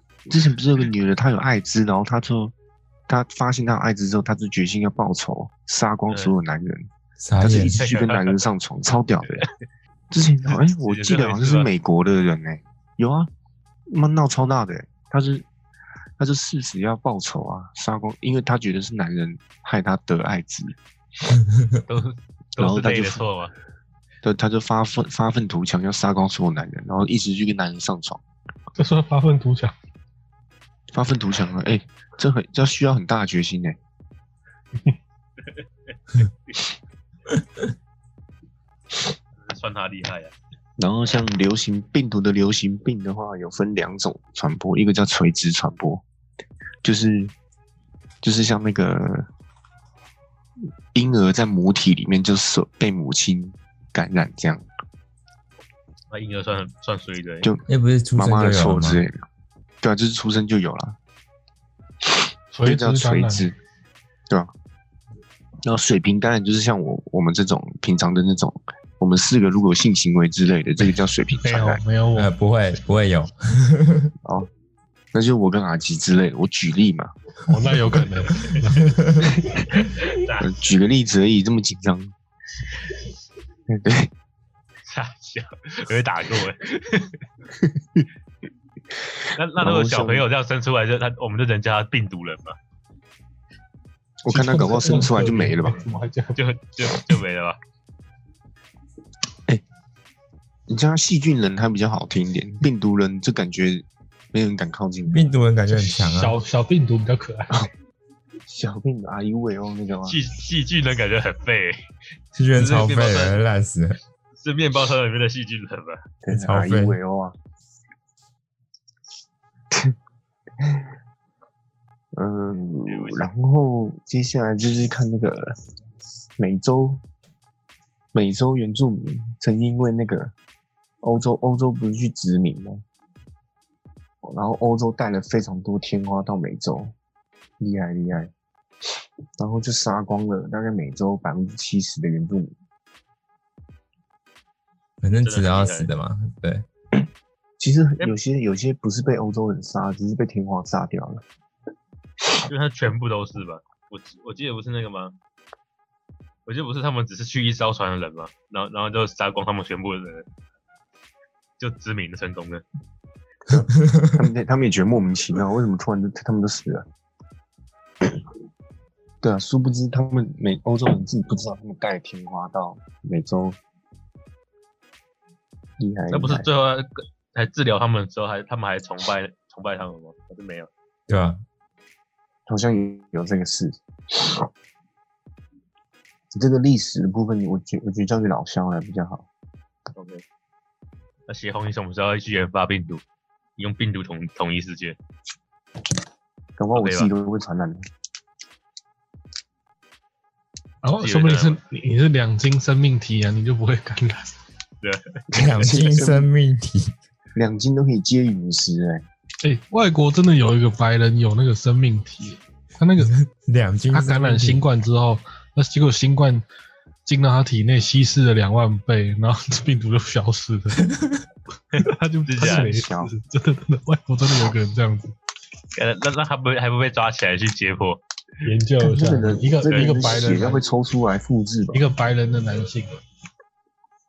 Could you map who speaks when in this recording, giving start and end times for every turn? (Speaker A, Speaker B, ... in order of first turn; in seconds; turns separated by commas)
Speaker A: 0.3-2.5, Speaker A: 3.1-6.9, Speaker B: 7.2-7.8, Speaker A: 7.4-9.5, Speaker C: 7.8-8.4, Speaker A: 10.1-13.3, Speaker C: 10.8-11.7, Speaker A: 13.9-15.5, Speaker A: 16.2-20.8, Speaker B: 21.4-21.7, Speaker C: 21.9-23.5, Speaker A: 22.6-23.2, Speaker A: 24.2-28.2, Speaker D: 28.8-29.7, Speaker A: 30.9-33.8, Speaker C: 39.4-40.3, Speaker A: 40.8-46.0, Speaker A: 46.8-47.3, Speaker A: 48.2-49.3, Speaker A: 50.9-54.6, Speaker C: 56.1-57.5, Speaker B: 57.7-59.0, Speaker A: 58.2-59.2, Speaker A: 59.8-61.0, Speaker D: 62.5-63.5, Speaker A: 62.6-63.5, Speaker A: 65.7-71.8, Speaker D: 71.4-72.3, Speaker B: 72.2-74.1, Speaker A: 74.2-74.5, Speaker A: 75.1-77.1, Speaker D: 77.5-79.6, Speaker C: 79.7-80.5, Speaker A: 80.4-82.1, Speaker A: 83.7-84.1, Speaker C: 84.9-87.2, Speaker A: 87.6-88.1, Speaker C: 89.4-92.6, Speaker A: 89.6-90.3, Speaker A: 94.2-95.8, Speaker D: 94.3-96.4, Speaker C: 96.4-97.6, Speaker A: 100.7-105.3, Speaker B: 105.1-106.4, Speaker D: 105.7-107.7, Speaker A: 108.5-110.2, Speaker C: 110.1-111.8, Speaker B: 112.3-114.0, Speaker C: 112.5-113.4, Speaker C: 114.4-116.0, Speaker A: 116.2-117.4, Speaker B: 116.3-117.0, Speaker A: 120.6-120.9, Speaker A: 122.1-125.6, Speaker C: 122.9-123.3, Speaker A: 126.4-127.0, Speaker A: 128.1-130.3, Speaker A: 131.0-132.8, Speaker A: 134.2-136.9, Speaker A: 137.6-138.3, Speaker A: 139.4-142.5, Speaker B: 145.0-146.7, Speaker C: 145.2-145.9, Speaker A: 147.6-151.2, Speaker C: 152.5-155.2, Speaker C: 156.5-160.3, Speaker C: 161.6-162.6, Speaker A: 163.5-166.9, Speaker A: 169.2-173.6, Speaker A: 175.8-176.5, Speaker C: 176.1-180.7, Speaker B: 181.1-181.4, Speaker A: 182.5-184.5, Speaker A: 186.3-189.3, Speaker C: 190.0-190.2, Speaker C: 191.3-193.0, Speaker C: 193.6-195.0, Speaker A: 196.6-197.8, Speaker C: 196.7-197.1, Speaker D: 200.8-204.3, Speaker C: 201.0-201.6, Speaker C: 204.8-205.7, Speaker B: 205.3-207.0, Speaker A: 205.3-206.3, Speaker A: 207.3-209.1, Speaker D: 209.4-213.1, Speaker B: 213.0-214.6, Speaker D: 213.9-216.4, Speaker D: 217.1-220.8, Speaker B: 220.9-221.2, Speaker C: 221.7-222.7, Speaker D: 221.8-225.2, Speaker A: 222.4-223.1, Speaker C: 225.8-228.0, Speaker D: 228.4-230.6, Speaker A: 228.8-231.8, Speaker C: 229.7-229.9, Speaker D: 231.7-232.9